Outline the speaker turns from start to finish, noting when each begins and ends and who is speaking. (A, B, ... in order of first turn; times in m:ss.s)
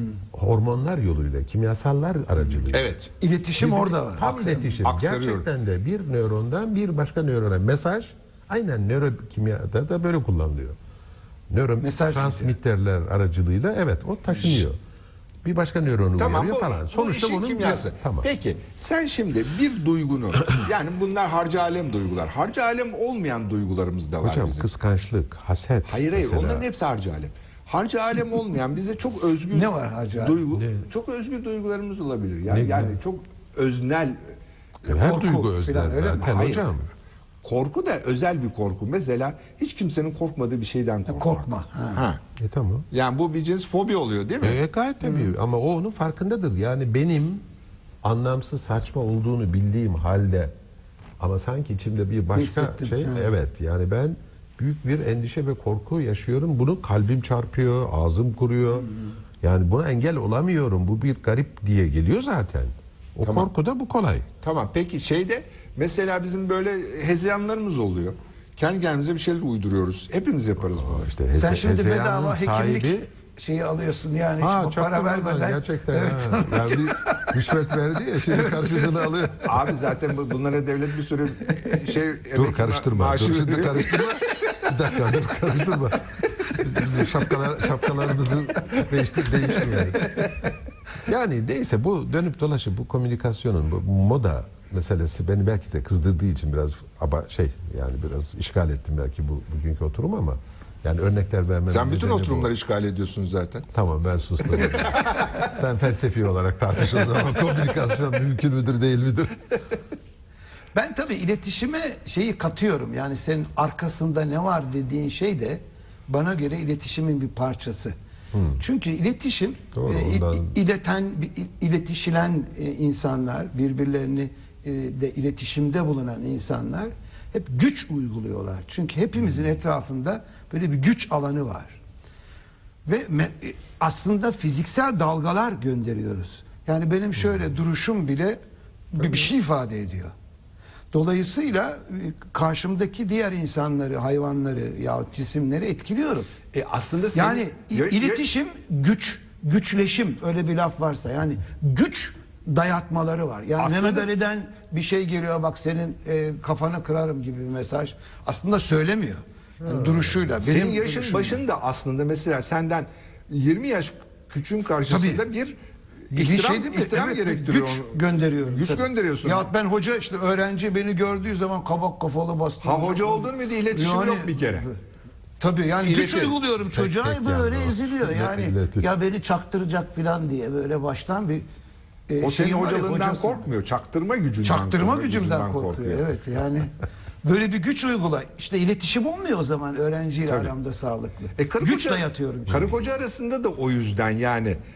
0:00.3-0:02.9 A
0:02.7-0:03.1 B
0:03.2-0:04.8 C
0:03.6-0:10.8 A
0:04.8-0:05.5 B
0:11.5-0:14.8 A
0:11.8-0:12.5 C
0:14.4-0:14.7 B
0:15.4-0:18.3 A
0:16.2-0:24.7 B
0:24.2-0:26.7 A
0:25.9-0:34.4 B
0:29.5-0:30.4 C
0:30.6-0:30.9 A
0:32.5-0:33.0 A
0:34.8-0:36.6 C
0:34.9-0:36.9 A
0:36.3-0:36.7 B
0:37.4-0:42.2 B
0:41.1-0:42.0 C
0:42.4-0:42.9 A
0:42.9-0:44.6 B
0:44.4-0:47.4 A
0:48.0-0:50.5 A
0:51.2-1:04.3 A
0:52.3-0:53.3 C
1:03.2-1:03.5 B
1:04.4-1:11.0 B
1:10.8-1:13.1 A
1:11.3-1:17.4 C
1:14.4-1:19.8 A
1:18.3-1:18.8 C
1:19.4-1:24.8 B
1:22.3-1:30.2 A
1:29.6-1:30.3 B
1:31.0-1:42.5 A
1:41.7-1:43.7 B
1:43.7-1:49.6 A
1:44.4-1:45.5 B
1:50.7-1:58.0 C
1:58.3-1:58.6 A
1:58.6-2:11.8 C
1:59.7-2:00.5 A
2:12.9-2:18.4 C
2:18.9-2:20.1 C
2:20.9-2:26.3 C
2:26.5-2:28.2 B
2:27.1-2:41.4 C
2:33.6-2:34.1 B
2:39.6-2:40.1 A
2:40.4-2:45.6 B
2:44.9-2:45.2 C
2:46.1-2:49.5 B
2:46.1-2:54.8 C
2:52.6-2:54.7 B
2:55.4-3:01.4 C
2:55.8-2:56.4 B
2:56.7-2:58.9 A
3:02.1-3:03.4 C
3:02.2-3:06.2 B
3:04.4-3:06.7 C
3:07.2-3:12.8 C
3:10.3-3:10.5 B
3:11.4-3:14.6 B